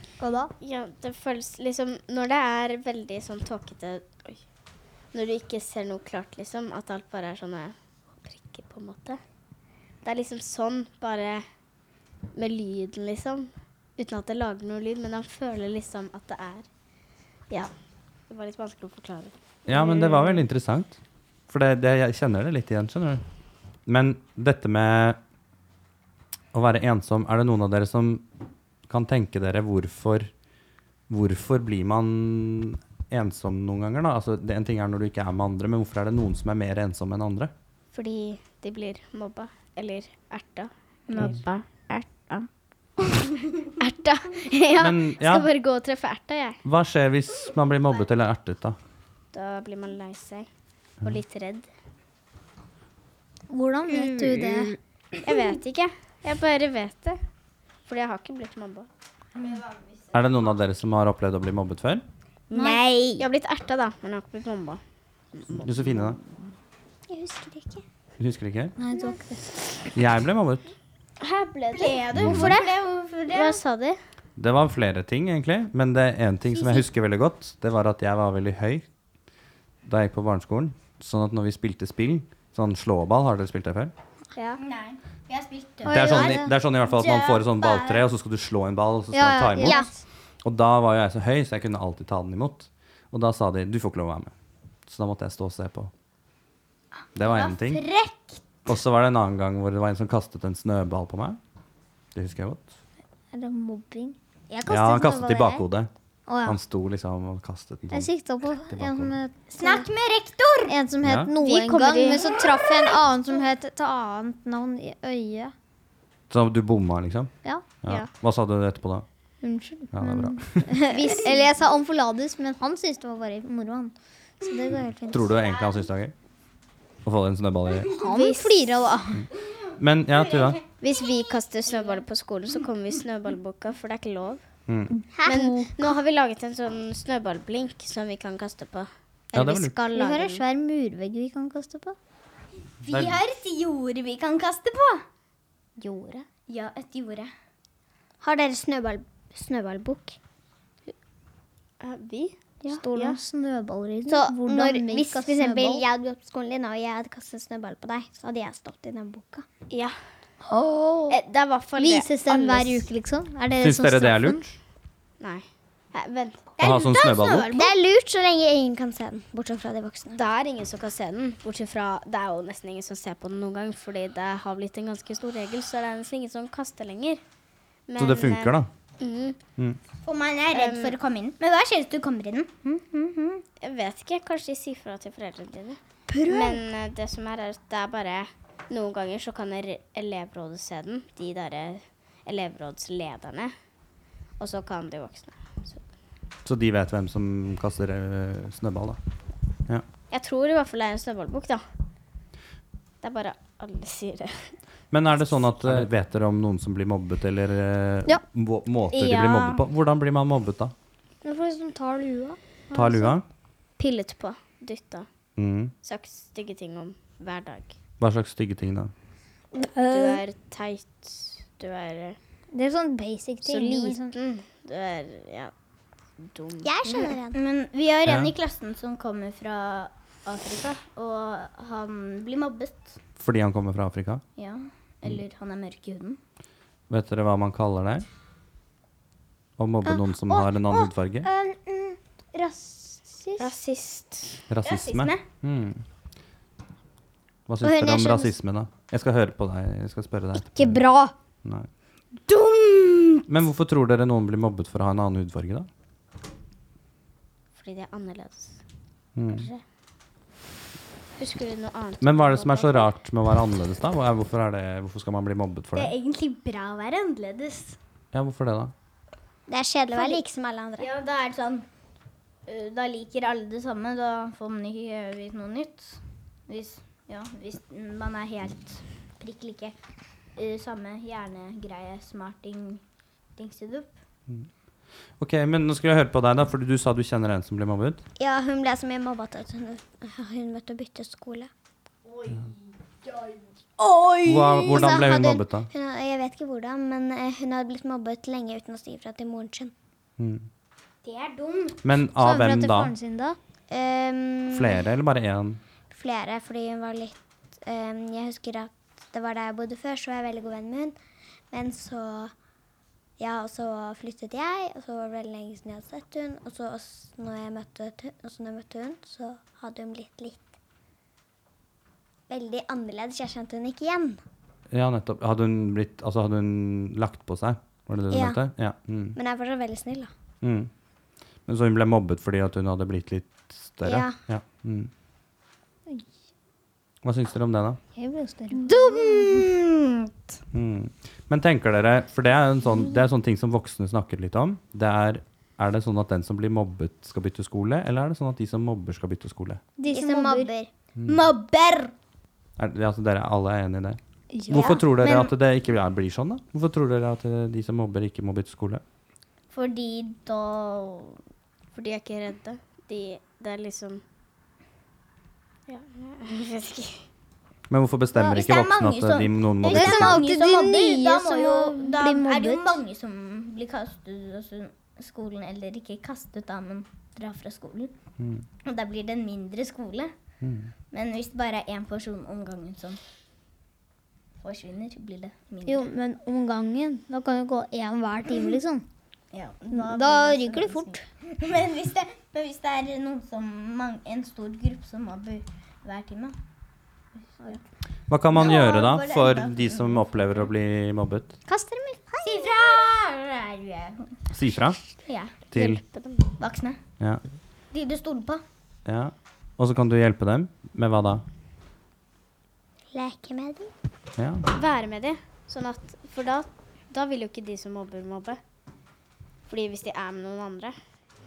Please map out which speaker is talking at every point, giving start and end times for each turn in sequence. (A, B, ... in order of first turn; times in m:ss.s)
0:00.2-0:00.5 A
0:00.6-0:04.4 B
0:05.1-0:09.2 B
0:10.0-0:11.4 B
0:12.4-0:16.7 B
0:18.3-0:20.4 B
0:19.7-0:21.0 C
0:21.5-0:23.2 C
0:23.9-0:25.2 C
0:26.5-0:28.2 C
0:28.9-0:30.3 C
0:31.1-0:37.5 C
0:37.9-0:42.5 B
0:41.1-0:41.4 D
0:43.8-0:46.6 B
0:44.8-0:45.5 C
0:46.6-0:48.8 C
0:49.3-0:50.5 B
0:51.0-0:51.7 B
0:53.5-0:54.8 A
0:53.9-0:54.7 B
0:55.2-0:57.2 B
0:57.9-0:58.9 B
0:59.4-1:00.3 D
1:00.1-1:02.0 C
1:02.5-1:02.8 A
1:02.5-1:03.3 E
1:03.2-1:04.8 B
1:05.3-1:06.1 B
1:05.6-1:06.2 C
1:07.1-1:07.8 E
1:08.2-1:08.8 C
1:08.8-1:09.5 A
1:09.9-1:10.7 C
1:11.2-1:12.7 B
1:11.7-1:13.6 D
1:12.2-1:12.6 C
1:13.3-1:14.0 B
1:14.4-1:18.9 C
1:19.8-1:23.9 C
1:24.6-1:28.0 D
1:25.8-1:26.5 A
1:25.9-1:29.8 C
1:29.1-1:29.9 A
1:29.6-1:29.9 E
1:30.4-1:34.3 C
1:34.9-1:35.9 C
1:37.2-1:37.8 C
1:37.2-1:38.4 D
1:38.7-1:41.4 C
1:42.1-1:42.7 C
1:43.3-1:45.6 A
1:44.7-1:45.9 C
1:46.3-1:46.6 A
1:46.4-1:49.1 C
1:47.9-1:49.9 A
1:49.5-1:50.8 D
1:50.7-1:55.5 A
1:51.0-1:51.3 C
1:51.4-1:52.3 B
1:56.3-1:59.1 C
1:59.4-2:05.4 A
1:59.9-2:00.8 C
2:05.1-2:06.1 C
2:07.0-2:07.9 C
2:08.0-2:09.3 A
2:08.1-2:08.4 B
2:09.8-2:10.6 C
2:10.8-2:14.4 B
2:14.7-2:14.9 C
2:14.9-2:15.7 A
2:15.3-2:20.4 B
2:19.3-2:19.8 C
2:19.9-2:22.0 A
2:22.8-2:25.0 D
2:22.9-2:23.2 C
2:25.8-2:26.3 A
2:26.5-2:27.3 D
2:28.2-2:30.2 E
2:31.8-2:33.2 B
2:32.7-2:35.9 A
2:34.1-2:39.5 E
2:39.7-2:40.0 B
2:40.5-2:41.2 A
2:41.1-2:42.8 B
2:41.8-2:44.4 A
2:43.6-2:44.5 C
2:45.2-2:46.5 B
2:46.6-2:47.7 D
2:46.6-2:47.5 C
2:47.5-2:50.2 E
2:50.1-2:57.2 B
2:57.9-2:59.4 B
2:58.0-2:58.7 C
3:00.0-3:03.4 D
3:00.5-3:01.0 B
3:03.6-3:13.5 B
3:14.4-3:15.8 B
3:16.4-3:19.0 C
3:20.1-3:21.6 B
3:23.0-3:24.6 B
3:24.9-3:30.7 C
3:28.9-3:29.6 B
3:31.2-3:33.1 A
3:32.7-3:33.2 C
3:33.8-3:35.1 B
3:35.4-3:35.7 C
3:35.8-3:37.8 B
3:38.0-3:38.9 C
3:39.6-3:40.2 A
3:39.9-3:42.2 B
3:42.5-3:44.2 A
3:43.4-3:45.5 B
3:46.2-3:47.1 B
3:46.6-3:47.4 E
3:47.3-3:53.0 D
3:48.0-3:48.3 C
3:53.2-3:54.2 C
3:54.4-3:56.2 D
3:56.9-3:58.1 C
3:59.6-4:01.3 C
3:59.9-4:03.5 A
4:03.4-4:04.4 B
4:04.5-4:05.8 C
4:04.6-4:05.2 D
4:07.5-4:10.8 C
4:07.6-4:08.0 A
4:07.8-4:08.3 E
4:10.4-4:11.1 A
4:12.3-4:13.2 D
4:13.3-4:15.7 C
4:17.6-4:18.6 B
4:19.2-4:19.5 C
4:21.2-4:22.9 B
4:22.0-4:25.9 C
4:25.7-4:27.8 D
4:28.1-4:28.7 C
4:29.5-4:30.9 E
4:29.9-4:30.2 D
4:30.8-4:31.6 D
4:32.5-4:39.8 D
4:40.4-4:42.8 D
4:43.4-4:43.9 D
4:45.2-4:48.0 C
4:48.2-4:51.5 E
4:52.0-4:55.0 D
4:54.2-4:55.7 C
4:54.7-4:59.7 E
5:00.2-5:00.5 C
5:01.0-5:01.8 D
5:01.8-5:02.9 C
5:02.2-5:03.4 A
5:03.7-5:04.8 E
5:04.5-5:05.6 C
5:05.9-5:11.0 E
5:11.5-5:12.3 E
5:13.2-5:20.5 E
5:22.3-5:24.2 E
5:24.7-5:29.2 C
5:28.1-5:28.4 E
5:29.2-5:30.1 E
5:30.4-5:30.7 C
5:31.5-5:34.9 C
5:33.8-5:34.2 E
5:37.0-5:37.8 C
5:38.0-5:38.8 A
5:38.6-5:40.0 D
5:38.9-5:39.4 E
5:40.5-5:49.6 C
5:49.8-5:50.5 A
5:49.9-5:50.7 E
5:51.0-5:51.9 D
5:52.6-5:58.8 C
5:54.3-5:54.8 A
5:54.6-5:55.3 D
5:59.5-6:01.2 D
6:01.7-6:04.0 B
6:05.7-6:07.0 B
6:07.7-6:10.3 C
6:08.2-6:17.9 D
6:09.7-6:12.8 A
6:18.2-6:18.4 C
6:18.6-6:20.1 D
6:20.4-6:20.7 C
6:20.9-6:23.0 D
6:24.4-6:25.9 D
6:25.6-6:28.8 A
6:29.3-6:36.4 D
6:29.7-6:31.0 A
6:38.1-6:41.3 C
6:38.3-6:40.1 D
6:41.5-6:42.5 A
6:42.2-6:44.2 D
6:44.3-6:44.8 C
6:45.1-6:45.4 D
6:45.5-6:45.8 C
6:45.5-6:46.3 B
6:46.4-6:46.8 D
6:47.7-6:48.4 D
6:48.9-6:51.2 C
6:52.9-6:53.7 E
6:54.2-6:54.4 C
6:54.5-6:58.4 B
6:59.5-7:00.8 B